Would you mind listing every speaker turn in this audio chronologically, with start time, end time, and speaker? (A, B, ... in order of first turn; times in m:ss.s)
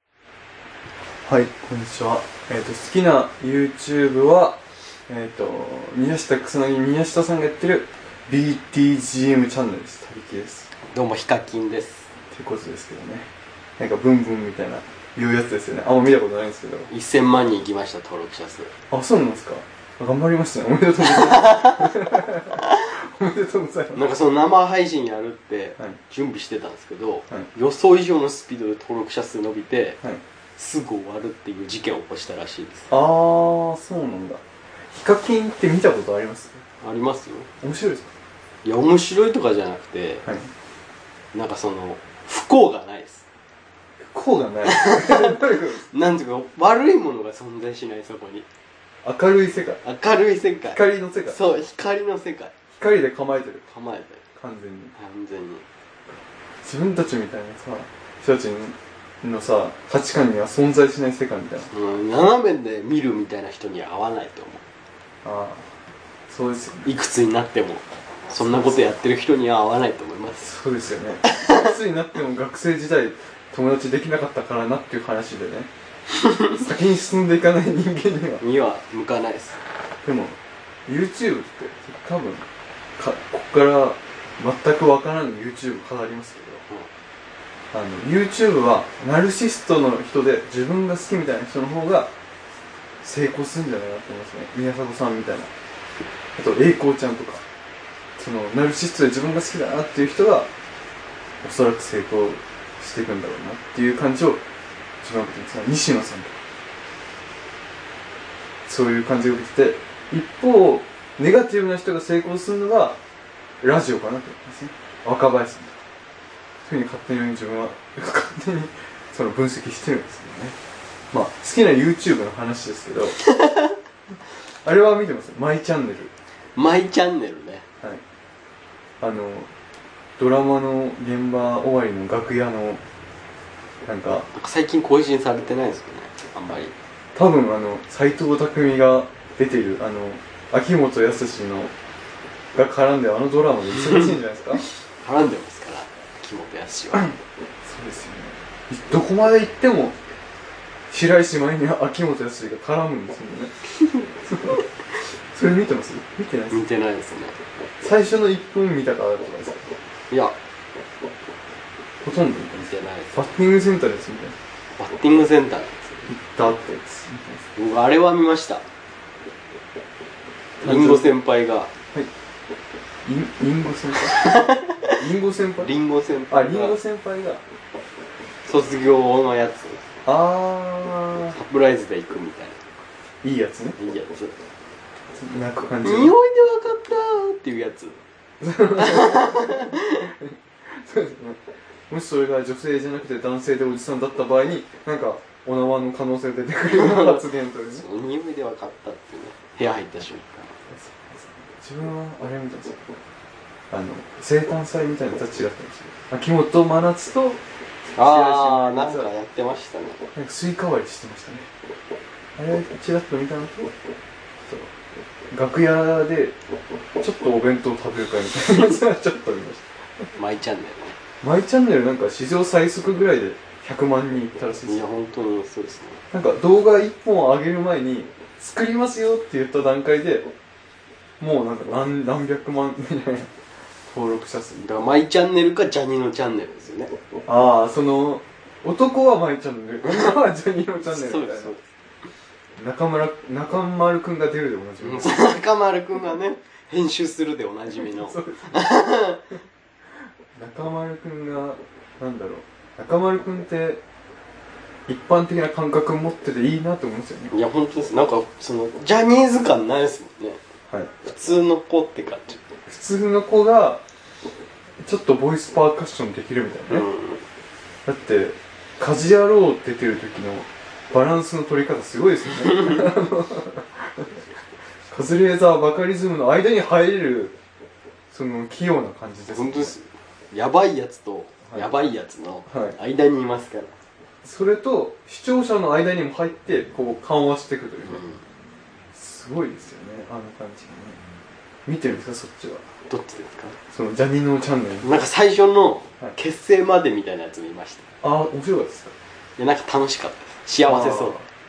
0:01.3-0:10.7 A
0:10.9-0:12.1 B
0:12.3-0:16.9 A
0:16.9-0:18.7 B
0:18.9-0:24.1 A
0:23.9-0:30.0 B
0:30.6-0:32.9 B
0:32.9-0:36.6 A
0:36.8-0:37.5 B
0:37.6-0:38.1 A
0:38.6-0:40.2 B
0:40.2-0:40.5 A
0:41.3-0:43.2 B
0:44.0-0:45.9 A
0:44.7-0:48.5 B
0:49.0-0:49.8 A
0:49.8-0:52.5 B
0:50.7-0:51.4 A
0:52.7-0:53.6 A
0:53.7-0:54.2 B
0:54.4-0:55.0 A
0:55.0-0:55.6 B
0:56.6-1:01.7 A
1:01.7-1:04.6 B
1:05.2-1:05.7 A
1:06.3-1:06.9 A
1:06.8-1:10.5 B
1:08.4-1:09.0 A
1:10.4-1:15.7 A
1:16.5-1:18.4 A
1:18.4-1:19.6 B
1:20.0-1:22.5 A
1:23.0-1:26.7 A
1:27.7-1:32.1 A
1:33.0-1:35.5 A
1:36.4-1:37.4 A
1:38.2-1:40.5 A
1:41.4-1:44.4 A
1:45.0-1:46.4 A
1:48.7-1:53.0 A
1:53.6-1:55.8 A
1:56.6-2:00.6 A
2:01.1-2:03.2 A
2:04.6-2:06.1 A
2:06.6-2:07.7 B
2:09.0-2:09.5 A
2:10.2-2:12.8 A
2:13.8-2:14.3 A
2:14.3-2:16.7 B
2:17.2-2:21.7 A
2:22.6-2:24.7 A
2:25.0-2:27.2 B
2:27.6-2:30.0 A
2:30.9-2:33.6 A
2:34.2-2:34.6 A
2:35.3-2:36.6 A
2:36.5-2:37.4 B
2:37.8-2:39.7 A
2:40.1-2:40.4 B
2:42.0-2:44.4 A
2:42.5-2:43.3 B
2:44.8-2:46.0 B
2:46.1-2:47.5 A
2:47.6-2:48.7 B
2:50.6-2:51.1 A
2:50.6-2:51.7 B
2:53.0-2:54.4 A
2:54.1-2:55.0 B
2:55.0-2:55.7 A
2:55.6-2:56.8 B
2:56.3-2:57.4 A
2:58.5-2:59.8 B
3:00.0-3:01.4 A
3:01.4-3:02.6 B
3:03.2-3:03.8 A
3:03.8-3:04.4 B
3:05.1-3:06.2 A
3:05.8-3:08.0 B
3:08.4-3:17.9 A
3:08.8-3:10.1 B
3:16.7-3:20.6 B
3:20.7-3:22.8 A
3:23.7-3:29.1 A
3:28.0-3:30.1 B
3:30.1-3:31.5 A
3:32.4-3:33.7 A
3:34.4-3:34.7 A
3:35.3-3:36.4 A
3:37.0-3:40.1 A
3:40.2-3:41.0 B
3:41.2-3:44.8 A
3:44.7-3:46.0 B
3:46.1-3:50.3 A
3:51.2-3:53.3 A
3:53.9-3:54.7 A
3:54.6-3:56.9 B
3:57.3-4:01.6 A
3:59.8-4:00.3 B
4:00.9-4:01.6 B
4:02.6-4:05.4 A
4:04.8-4:09.2 B
4:07.7-4:08.7 A
4:10.4-4:13.8 A
4:14.9-4:17.4 A
4:17.3-4:20.4 B
4:21.0-4:22.4 B
4:22.7-4:23.8 A
4:24.8-4:26.9 A
4:26.7-4:27.2 B
4:27.8-4:34.2 A
4:34.9-4:37.4 A
4:38.1-4:39.8 A
4:39.3-4:43.7 B
4:42.5-4:42.8 A
4:44.2-4:48.1 A
4:47.9-4:48.2 B
4:48.9-4:51.0 A
4:51.7-4:52.7 A
4:52.9-4:53.6 B
4:53.7-4:55.0 A
4:54.8-4:57.9 B
4:58.0-4:58.9 A
4:59.4-5:01.2 B
5:00.6-5:01.3 A